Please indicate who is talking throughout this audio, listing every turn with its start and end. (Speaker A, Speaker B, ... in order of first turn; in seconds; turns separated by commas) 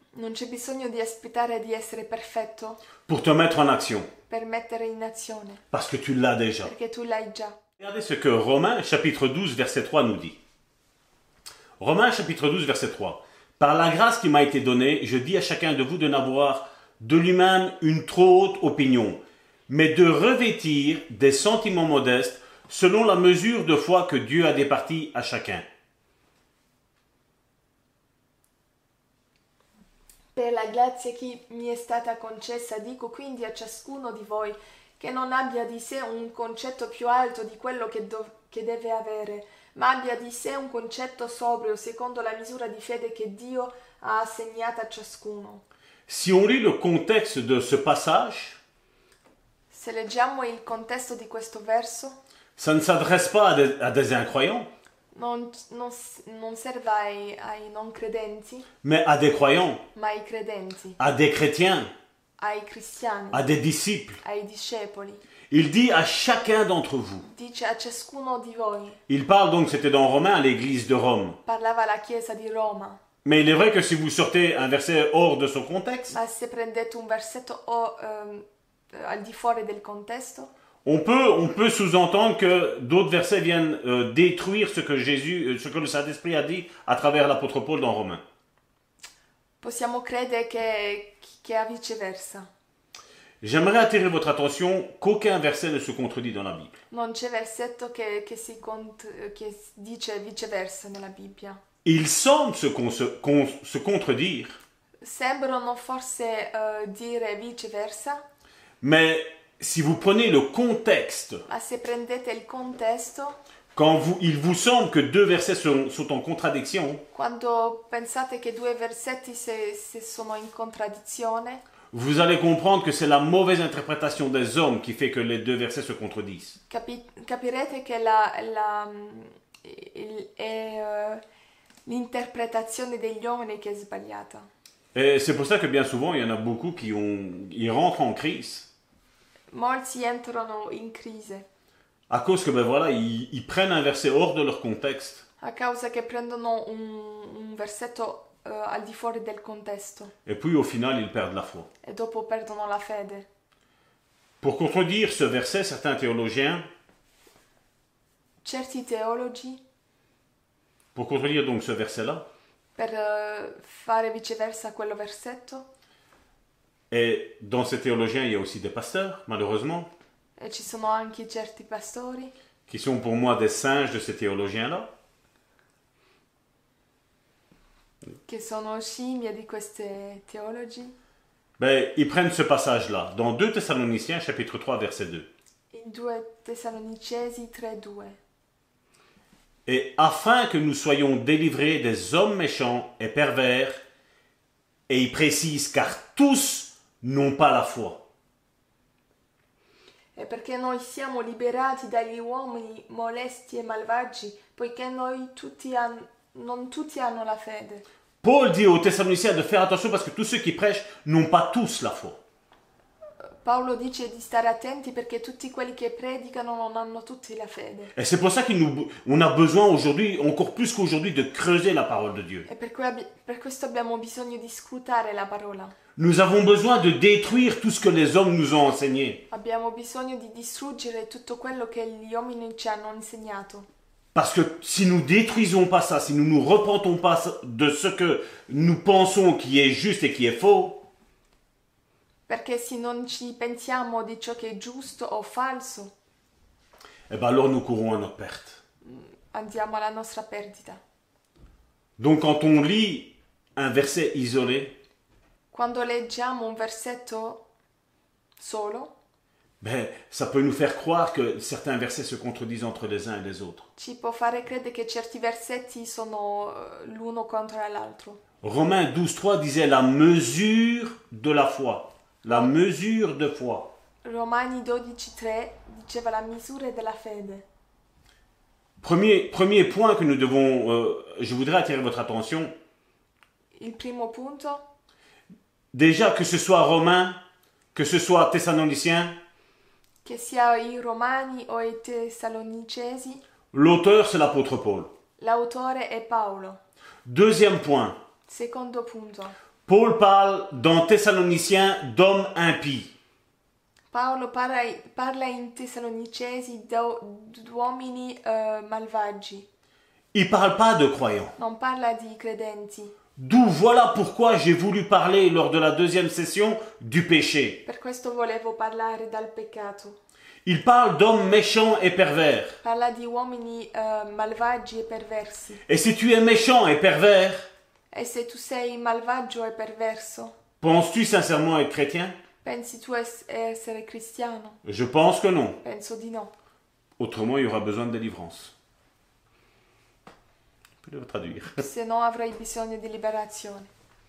Speaker A: 0.1-2.8, Speaker B: 3.0-4.1, Speaker A: 4.3-5.6, Speaker B: 5.7-6.7, Speaker A: 6.6-7.6, Speaker B: 7.8-10.4, Speaker B: 11.8-25.6, Speaker A: 30.3-45.6, Speaker B: 46.1-48.6, Speaker A: 49.7-52.2, Speaker B: 52.6-54.7, Speaker A: 55.1-58.7, Speaker B: 58.8-59.8, Speaker A: 60.0-61.0, Speaker B: 61.0-61.9, Speaker A: 62.4-63.5, Speaker B: 63.3-64.2, Speaker A: 64.2-65.3, Speaker B: 65.5-67.3, Speaker A: 67.2-69.0, Speaker B: 69.1-71.4, Speaker A: 71.5-73.0, Speaker B: 73.2-76.2, Speaker A: 76.1-80.5, Speaker B: 80.8-88.2, Speaker A: 89.6-92.5, Speaker B: 93.4-96.8, Speaker A: 96.9-101.6, Speaker B: 101.8-104.6, Speaker A: 105.0-108.2, Speaker B: 108.8-111.4, Speaker A: 111.5-113.4, Speaker B: 113.8-117.0, Speaker A: 117.1-121.6, Speaker B: 121.9-126.6, Speaker A: 126.7-131.2, Speaker A: 131.9-134.5, Speaker B: 134.9-138.7, Speaker A: 139.5-141.5, Speaker B: 142.1-145.2, Speaker A: 145.4-150.1, Speaker B: 150.2-151.7, Speaker A: 151.8-153.3, Speaker B: 154.4-156.7, Speaker A: 158.4-159.6, Speaker B: 160.9-162.3, Speaker A: 162.8-165.7, Speaker B: 166.9-169.9, Speaker A: 170.4-172.3, Speaker B: 172.7-174.9, Speaker A: 178.3-181.0, Speaker B: 181.6-185.3, Speaker A: 185.7-188.2, Speaker B: 189.7-193.8, Speaker B: 194.9-198.0, Speaker A: 200.2-207.8, Speaker B: 208.2-212.2, Speaker A: 213.4-217.9, Speaker B: 217.9-222.5, Speaker A: 222.5-225.8, Speaker B: 226.0-229.2, Speaker A: 229.3-233.7, Speaker B: 234.1-240.8, Speaker A: 242.3-245.9, Speaker B: 247.1-248.6, Speaker A: 248.8-250.8, Speaker B: 252.0-254.8, Speaker A: 255.5-257.4, Speaker A: 258.4-258.9, Speaker B: 259.6-263.7, Speaker A: 263.8-268.2, Speaker B: 268.4-273.7, Speaker A: 272.3-272.5, Speaker A: 274.0-277.4, Speaker B: 278.8-282.5, Speaker A: 283.6-284.6, Speaker B: 285.7-287.2, Speaker B: 287.7-289.2, Speaker A: 290.0-293.2, Speaker B: 293.5-294.9, Speaker A: 295.2-296.6, Speaker B: 297.1-298.0, Speaker A: 298.3-299.4, Speaker B: 299.7-302.9, Speaker A: 303.9-309.5, Speaker B: 310.1-311.4, Speaker A: 311.4-312.9, Speaker B: 313.2-317.6, Speaker A: 317.7-320.0, Speaker B: 320.4-322.6, Speaker A: 322.6-325.6, Speaker B: 325.7-327.5, Speaker A: 327.9-330.3, Speaker B: 330.6-332.2, Speaker A: 332.4-334.6, Speaker B: 334.6-335.6, Speaker A: 335.6-336.3, Speaker B: 337.0-338.5, Speaker B: 340.8-341.6, Speaker A: 341.6-343.7